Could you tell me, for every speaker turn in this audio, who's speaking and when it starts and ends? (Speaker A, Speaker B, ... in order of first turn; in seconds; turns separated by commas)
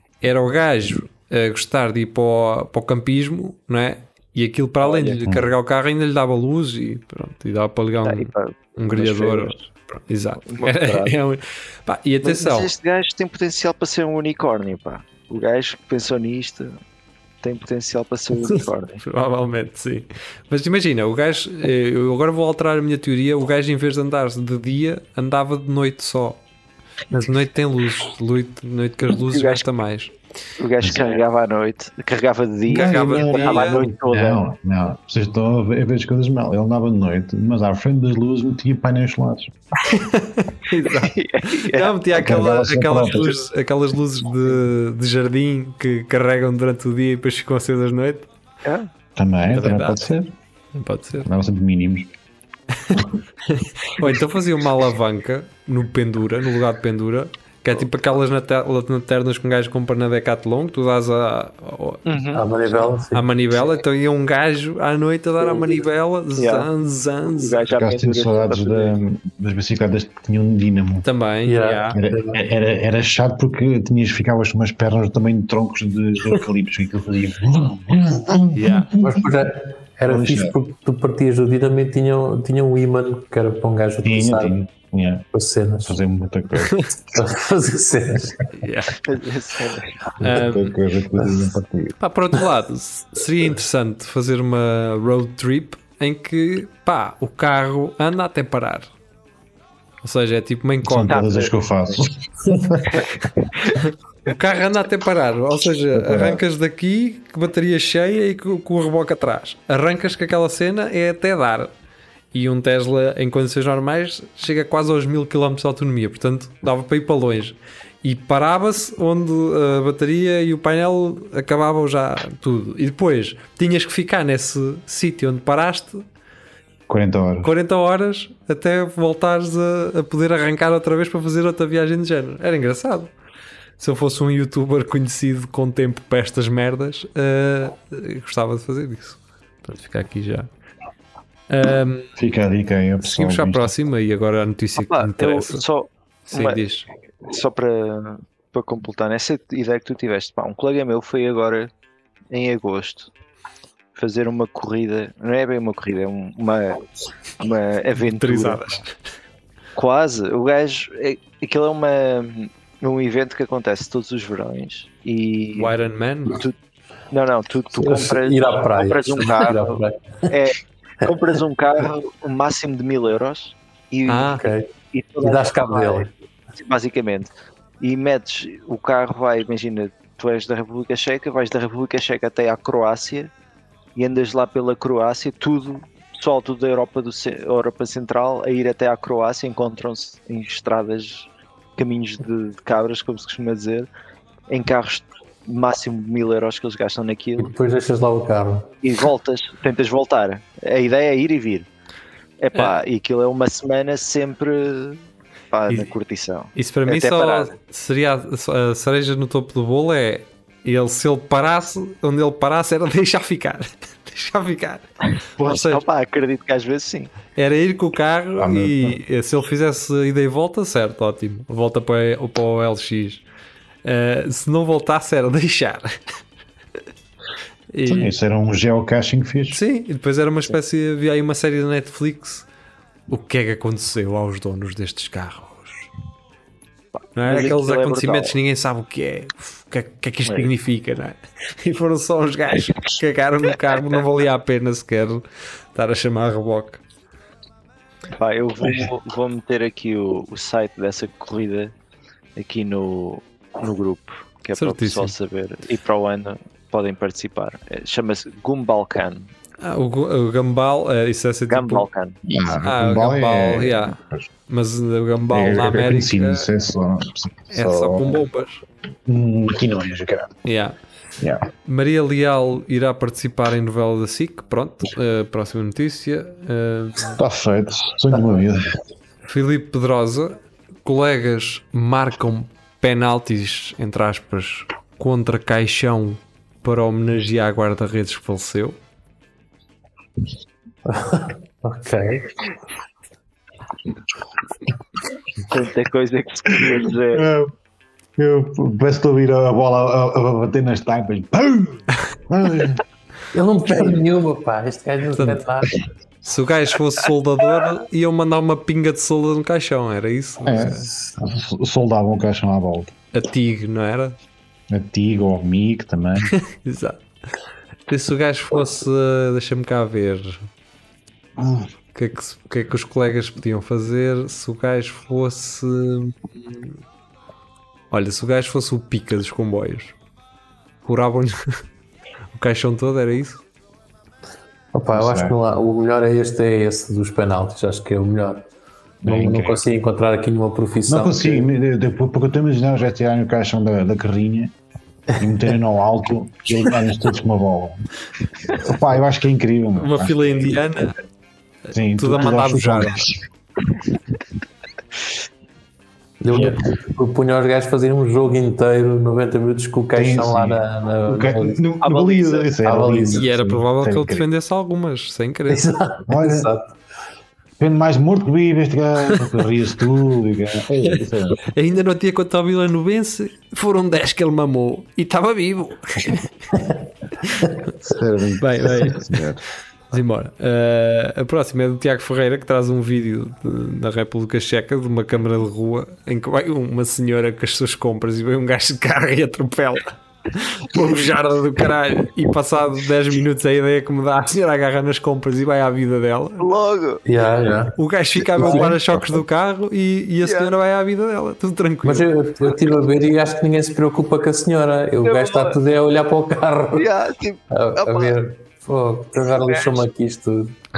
Speaker A: 0.2-12.7, Speaker B: 4.8-5.2, Speaker C: 5.2-5.5, Speaker B: 8.0-9.6, Speaker B: 10.5-11.1, Speaker B: 12.2-16.8, Speaker B: 17.4-19.0, Speaker A: 19.0-26.4, Speaker A: 27.1-30.1, Speaker B: 29.1-29.6, Speaker B: 30.6-34.4, Speaker C: 30.8-31.2, Speaker A: 32.7-33.9, Speaker C: 32.7-39.5, Speaker A: 39.8-48.3, Speaker B: 40.9-42.0, Speaker C: 42.1-43.5, Speaker B: 48.6-48.9, Speaker C: 49.2-50.3, Speaker A: 49.5-50.0, Speaker A: 50.7-51.3, Speaker C: 51.2-52.1, Speaker A: 52.8-62.0, Speaker B: 62.1-62.5, Speaker D: 62.3-63.3, Speaker A: 63.1-67.6, Speaker B: 65.4-65.8, Speaker B: 66.4-66.7, Speaker B: 67.3-68.9, Speaker C: 67.7-71.1, Speaker A: 71.0-72.0, Speaker D: 71.5-72.4, Speaker C: 71.9-79.3, Speaker A: 78.5-79.0, Speaker D: 79.0-84.6, Speaker C: 80.1-80.6, Speaker C: 84.0-85.3, Speaker D: 85.3-86.0, Speaker C: 85.9-86.8, Speaker A: 86.6-86.9, Speaker D: 87.1-88.4, Speaker A: 88.5-89.0, Speaker B: 89.0-90.1, Speaker A: 90.2-90.8, Speaker C: 90.2-92.0, Speaker A: 92.0-98.9, Speaker A: 100.0-101.3, Speaker C: 100.8-103.1, Speaker B: 101.1-102.0, Speaker B: 102.9-103.1, Speaker A: 104.2-111.7, Speaker C: 105.9-106.4, Speaker A: 112.3-126.0, Speaker C: 126.9-127.5, Speaker A: 127.4-133.1, Speaker A: 133.8-140.5, Speaker A: 141.5-142.1, Speaker C: 142.2-143.7, Speaker A: 143.0-145.6, Speaker B: 144.8-146.6, Speaker A: 146.3-146.9, Speaker B: 147.2-151.7, Speaker B: 152.3-153.1, Speaker B: 153.9-156.8, Speaker B: 157.4-158.8, Speaker A: 158.1-158.9, Speaker B: 159.8-165.7, Speaker A: 165.6-166.4, Speaker B: 167.1-169.8, Speaker D: 167.7-170.3, Speaker B: 170.3-183.3, Speaker A: 174.1-174.5, Speaker D: 174.4-174.7, Speaker D: 175.2-176.1, Speaker B: 184.0-193.9, Speaker B: 194.5-197.5, Speaker D: 197.4-198.7, Speaker B: 198.8-201.7, Speaker B: 202.4-205.0, Speaker A: 202.5-202.8, Speaker B: 205.5-207.5, Speaker A: 206.6-214.9, Speaker A: 215.4-215.8, Speaker B: 215.4-217.1, Speaker A: 217.3-223.2, Speaker C: 218.4-219.0, Speaker A: 223.8-226.0, Speaker A: 227.7-228.2, Speaker C: 227.9-229.6, Speaker A: 229.5-232.5, Speaker A: 233.1-235.9, Speaker B: 237.0-238.3, Speaker A: 237.2-246.8, Speaker B: 240.3-240.5, Speaker B: 248.2-251.7, Speaker B: 252.4-259.3, Speaker A: 254.6-255.1, Speaker A: 259.6-261.9, Speaker B: 261.5-262.2, Speaker C: 262.3-264.3, Speaker A: 262.6-264.0, Speaker A: 264.5-266.5, Speaker C: 265.3-268.2, Speaker A: 267.5-268.6, Speaker C: 269.1-270.4, Speaker A: 270.4-270.8, Speaker C: 271.2-271.5, Speaker A: 271.7-277.2, Speaker C: 277.1-278.6, Speaker A: 279.3-288.8, Speaker D: 290.9-292.3, Speaker B: 295.5-297.3, Speaker C: 297.1-297.5, Speaker C: 298.2-302.8, Speaker D: 303.3-305.7, Speaker A: 305.2-305.4, Speaker A: 306.2-310.9, Speaker C: 310.4-312.9, Speaker A: 313.1-314.2, Speaker C: 314.7-316.3, Speaker A: 316.2-317.0, Speaker A: 317.9-320.4, Speaker C: 321.4-321.7, Speaker A: 321.9-326.8, Speaker A: 327.9-329.9, Speaker A: 330.9-331.4, Speaker A: 332.3-333.4, Speaker D: 334.7-338.5, Speaker C: 334.9-335.4, Speaker C: 339.0-339.6, Speaker D: 339.1-341.5, Speaker C: 340.9-344.5, Speaker C: 345.2-347.9, Speaker C: 348.5-350.5, Speaker A: 349.8-351.0, Speaker C: 351.7-353.2, Speaker A: 352.0-353.1, Speaker D: 356.2-361.6, Speaker C: 356.3-356.6, Speaker C: 359.9-364.2, Speaker B: 361.8-362.5, Speaker D: 362.6-363.3, Speaker A: 363.1-365.7, Speaker D: 365.5-366.8, Speaker C: 366.1-366.5, Speaker C: 367.6-371.5, Speaker A: 370.9-376.3, Speaker A: 377.3-377.6, Speaker C: 377.8-379.4, Speaker A: 378.4-379.2, Speaker A: 379.9-396.5, Speaker B: 396.4-397.0, Speaker D: 397.1-397.8, Speaker A: 397.8-402.1, Speaker D: 398.4-398.8, Speaker C: 398.4-399.2, Speaker B: 400.2-400.5, Speaker D: 401.8-406.9, Speaker B: 405.0-405.6, Speaker B: 406.8-408.1, Speaker D: 407.5-410.6, Speaker B: 409.4-409.9